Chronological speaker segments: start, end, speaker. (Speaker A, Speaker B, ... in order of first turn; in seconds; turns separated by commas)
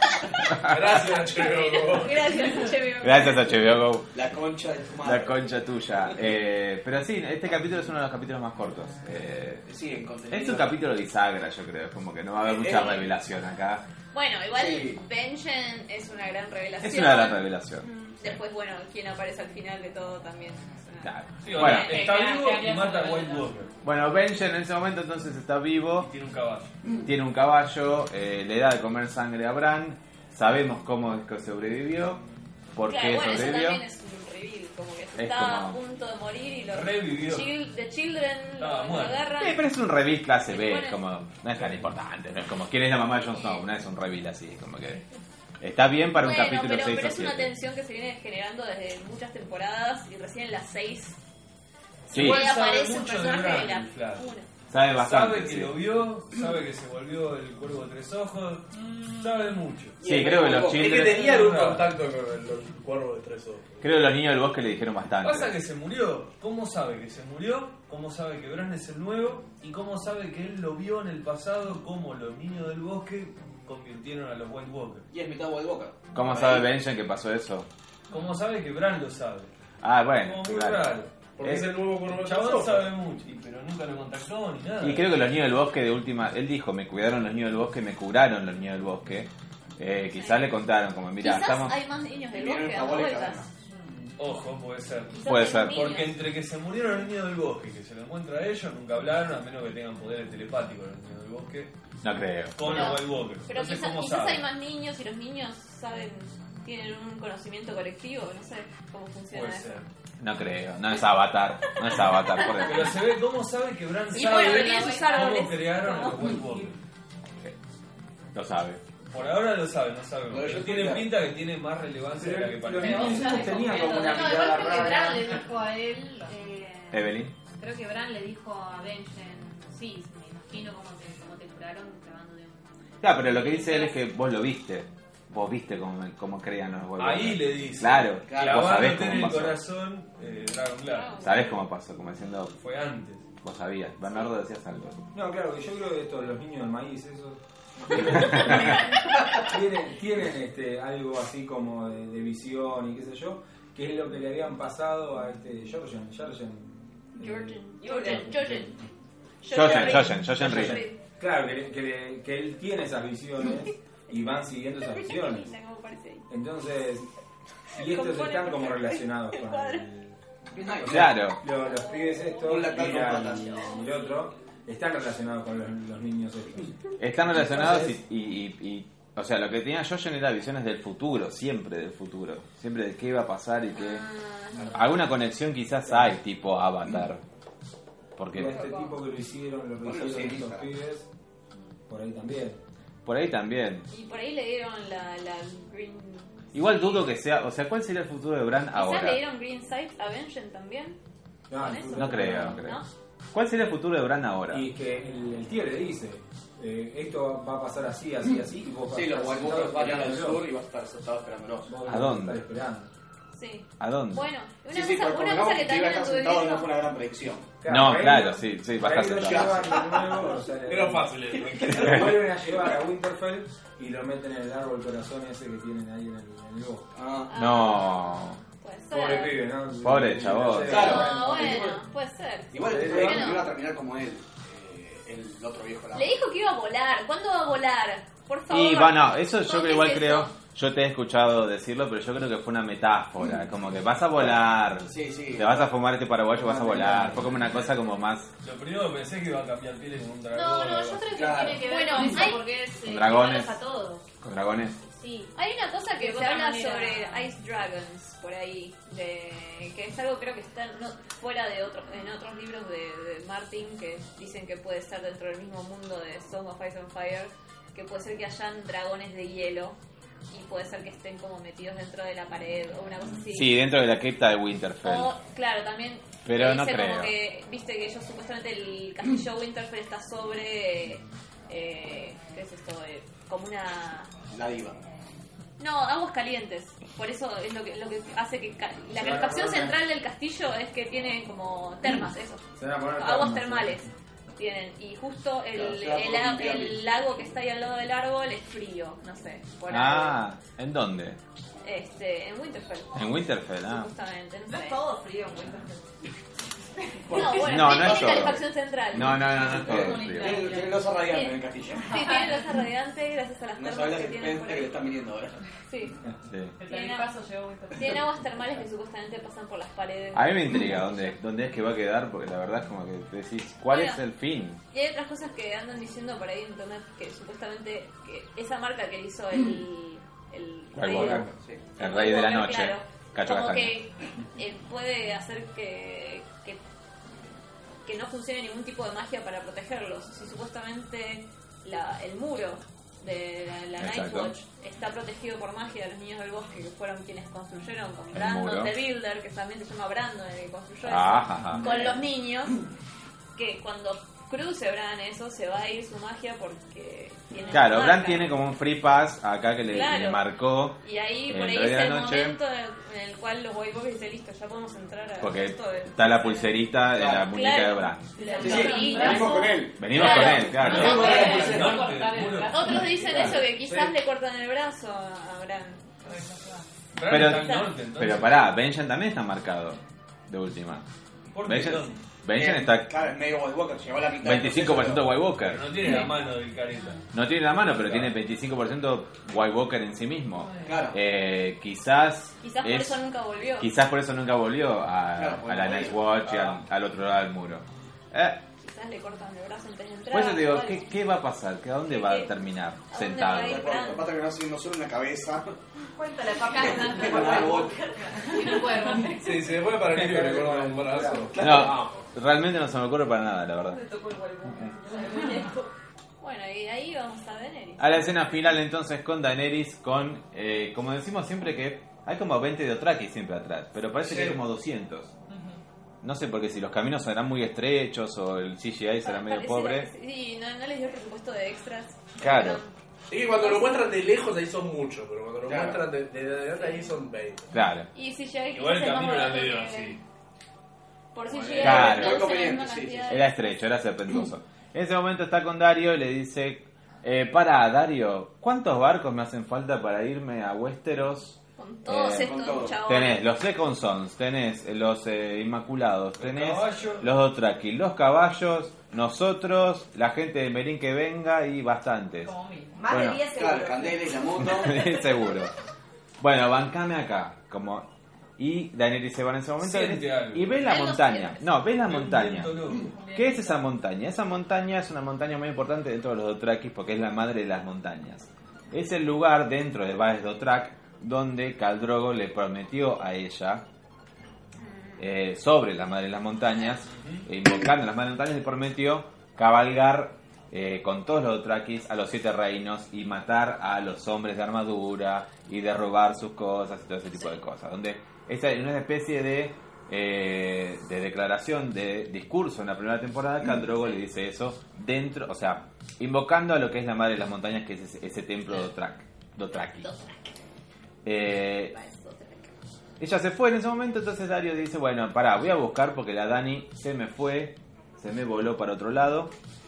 Speaker A: 0.5-0.8, Speaker B: 0.6-2.4, Speaker C: 1.4-3.7, Speaker A: 3.0-4.1, Speaker D: 4.1-5.4, Speaker A: 5.0-9.7, Speaker D: 9.7-10.8, Speaker A: 10.3-13.8, Speaker D: 12.5-13.0, Speaker C: 14.1-21.1, Speaker D: 14.5-15.0, Speaker A: 16.8-18.4, Speaker A: 21.0-22.0, Speaker E: 21.4-23.7, Speaker F: 21.6-23.5, Speaker A: 23.8-26.1, Speaker E: 26.0-26.8, Speaker A: 27.0-32.2, Speaker A: 32.7-33.8, Speaker C: 32.8-39.6, Speaker A: 35.1-35.8, Speaker E: 36.7-37.5, Speaker E: 38.6-39.3, Speaker A: 39.4-45.0, Speaker C: 40.5-41.0, Speaker C: 43.2-43.7, Speaker A: 45.6-47.5, Speaker C: 46.2-51.2, Speaker E: 52.1-54.3, Speaker C: 52.1-54.5, Speaker A: 52.1-52.4, Speaker A: 54.7-55.8, Speaker E: 54.9-60.0, Speaker F: 58.7-59.5, Speaker D: 60.0-60.9, Speaker A: 60.0-61.3, Speaker B: 60.7-63.8, Speaker E: 60.8-62.0, Speaker A: 63.8-65.5, Speaker E: 65.2-75.0, Speaker D: 75.1-76.7, Speaker A: 76.1-77.7, Speaker E: 78.1-79.5, Speaker A: 79.8-81.7, Speaker E: 80.2-81.2, Speaker B: 81.4-82.9, Speaker E: 82.1-85.1, Speaker A: 84.8-91.8, Speaker C: 90.1-90.5, Speaker C: 91.2-93.4, Speaker D: 92.3-93.5, Speaker E: 94.0-101.7, Speaker C: 95.1-96.2, Speaker A: 95.2-96.0, Speaker A: 102.0-103.0, Speaker E: 102.5-104.4, Speaker C: 102.6-109.8, Speaker E: 109.3-109.8, Speaker A: 110.2-112.9, Speaker C: 111.9-112.7, Speaker E: 112.5-116.8, Speaker C: 114.1-116.3, Speaker G: 116.2-116.7, Speaker A: 118.3-118.8, Speaker E: 119.1-123.4, Speaker D: 120.3-121.2, Speaker G: 122.1-125.3, Speaker F: 122.8-124.7, Speaker H: 122.9-132.7, Speaker C: 125.0-125.2, Speaker A: 126.9-127.3, Speaker A: 133.0-139.6, Speaker H: 133.2-134.0, Speaker E: 137.0-141.1, Speaker D: 138.3-139.0, Speaker C: 140.8-141.6, Speaker A: 141.2-142.5, Speaker E: 142.5-143.2, Speaker A: 143.4-145.0, Speaker G: 145.1-158.9, Speaker C: 157.2-158.7, Speaker I: 157.8-158.5, Speaker C: 159.4-161.0, Speaker A: 159.5-160.8, Speaker G: 159.5-165.5, Speaker C: 164.9-166.3, Speaker G: 166.3-167.1, Speaker G: 167.7-178.0, Speaker C: 167.8-169.8, Speaker D: 170.5-171.2, Speaker A: 170.8-171.4, Speaker C: 171.5-172.6, Speaker D: 172.4-173.7, Speaker C: 173.5-174.0, Speaker A: 177.0-184.1, Speaker C: 183.7-184.8, Speaker G: 184.6-184.9, Speaker A: 184.7-187.2, Speaker A: 188.2-188.6, Speaker G: 188.3-191.1, Speaker C: 188.4-189.0, Speaker D: 189.8-190.7, Speaker G: 191.9-192.6, Speaker A: 193.0-193.9, Speaker C: 193.9-197.0, Speaker A: 196.5-199.2, Speaker C: 198.7-201.0, Speaker G: 201.5-202.6, Speaker C: 201.5-202.9, Speaker A: 201.8-202.8, Speaker A: 203.3-204.7, Speaker G: 204.5-210.4, Speaker D: 208.9-211.7, Speaker G: 211.7-212.9, Speaker A: 211.8-212.4, Speaker C: 213.3-216.8, Speaker A: 213.8-214.3, Speaker D: 214.7-217.5, Speaker G: 217.6-226.9, Speaker A: 217.7-219.7, Speaker D: 219.2-220.4, Speaker B: 220.6-222.5, Speaker D: 221.4-221.7, Speaker D: 226.9-227.3, Speaker C: 227.3-229.6, Speaker A: 227.3-228.4, Speaker G: 228.9-231.8, Speaker A: 229.8-231.1, Speaker D: 230.6-231.8, Speaker C: 230.6-233.5, Speaker D: 232.5-236.1, Speaker G: 232.5-233.4, Speaker C: 235.9-240.3, Speaker A: 238.5-248.3, Speaker D: 244.8-245.7, Speaker G: 246.3-247.4, Speaker E: 248.4-251.2, Speaker H: 250.3-254.0, Speaker D: 251.1-251.7, Speaker C: 251.6-252.5, Speaker F: 251.8-252.2, Speaker A: 252.8-253.6, Speaker A: 254.2-254.8, Speaker H: 254.9-255.3, Speaker C: 255.3-269.8, Speaker H: 255.9-257.2, Speaker F: 256.4-256.9, Speaker C: 270.3-273.6, Speaker A: 273.3-275.1, Speaker C: 274.8-284.1, Speaker A: 276.2-277.1, Speaker D: 284.3-284.8, Speaker C: 285.6-300.2, Speaker G: 288.9-289.8, Speaker G: 292.6-293.9, Speaker D: 295.5-296.9, Speaker A: 299.7-301.2, Speaker C: 301.6-303.0, Speaker A: 302.9-303.9, Speaker C: 303.6-304.8, Speaker I: 304.5-305.9, Speaker D: 307.0-308.4, Speaker C: 307.1-309.6, Speaker A: 307.3-310.5, Speaker D: 309.4-311.9, Speaker F: 309.5-310.8, Speaker C: 311.0-314.8, Speaker D: 313.5-315.4, Speaker C: 315.7-316.0, Speaker A: 316.3-316.6, Speaker F: 316.6-317.9, Speaker C: 316.6-317.1, Speaker C: 317.7-321.1, Speaker A: 320.1-324.6, Speaker C: 323.7-324.0, Speaker C: 324.7-336.6, Speaker A: 330.7-333.8, Speaker G: 330.9-331.3, Speaker D: 331.3-331.8, Speaker C: 337.8-352.6, Speaker A: 343.8-344.3, Speaker A: 348.1-348.7, Speaker A: 350.8-352.0, Speaker C: 353.4-358.3, Speaker A: 357.5-362.4, Speaker C: 359.7-360.2, Speaker C: 360.8-366.5, Speaker A: 365.2-368.1, Speaker D: 366.9-367.3, Speaker C: 367.1-371.4, Speaker I: 368.2-369.2, Speaker F: 368.2-369.3, Speaker D: 368.4-371.8, Speaker H: 368.7-369.3, Speaker A: 369.7-371.5, Speaker F: 370.0-373.4, Speaker E: 370.5-373.3, Speaker C: 372.5-375.9, Speaker G: 373.1-373.9, Speaker D: 373.2-373.8, Speaker F: 376.1-376.6, Speaker E: 376.9-378.5, Speaker A: 377.1-380.9, Speaker C: 377.2-377.8, Speaker E: 381.3-382.0, Speaker A: 381.4-382.9, Speaker D: 382.3-385.1, Speaker A: 384.2-385.8, Speaker E: 385.4-387.0, Speaker C: 385.8-386.1, Speaker A: 387.1-393.0, Speaker E: 387.6-388.1, Speaker F: 390.4-390.7, Speaker D: 390.6-391.0, Speaker C: 392.4-393.7, Speaker A: 393.6-398.4, Speaker D: 395.1-396.1, Speaker E: 396.2-396.6, Speaker C: 398.6-400.9, Speaker A: 400.1-403.8, Speaker C: 401.9-402.3, Speaker C: 402.9-404.1, Speaker D: 403.4-405.6, Speaker I: 405.9-409.1, Speaker D: 406.9-407.8, Speaker F: 408.3-409.2, Speaker H: 408.8-409.1, Speaker B: 409.2-412.0, Speaker G: 409.6-411.4, Speaker D: 411.3-411.8, Speaker A: 411.4-413.8, Speaker I: 413.7-415.7, Speaker C: 416.2-418.2, Speaker A: 417.8-425.1, Speaker B: 424.0-424.3, Speaker F: 425.3-425.6, Speaker A: 426.0-429.9, Speaker C: 429.0-432.7, Speaker A: 432.2-432.6, Speaker B: 433.1-437.5, Speaker C: 433.3-433.8, Speaker D: 435.4-435.8, Speaker C: 436.5-436.9, Speaker A: 437.5-437.9, Speaker C: 437.9-440.0, Speaker E: 438.5-440.0, Speaker C: 441.1-443.4, Speaker D: 441.3-443.1, Speaker A: 441.6-442.3, Speaker A: 443.1-462.3, Speaker C: 451.6-453.2, Speaker D: 452.0-452.9, Speaker E: 456.2-457.1, Speaker F: 462.2-462.8, Speaker I: 462.7-465.4, Speaker A: 462.9-463.2, Speaker D: 463.2-464.9, Speaker A: 464.4-465.5, Speaker A: 466.2-483.6, Speaker E: 469.6-470.6, Speaker C: 470.6-471.4, Speaker E: 471.8-472.9, Speaker F: 472.9-473.6, Speaker C: 484.6-485.0, Speaker A: 485.0-509.9, Speaker E: 486.9-487.2, Speaker C: 509.6-510.4, Speaker A: 511.0-511.7, Speaker C: 511.7-512.5, Speaker A: 513.0-519.3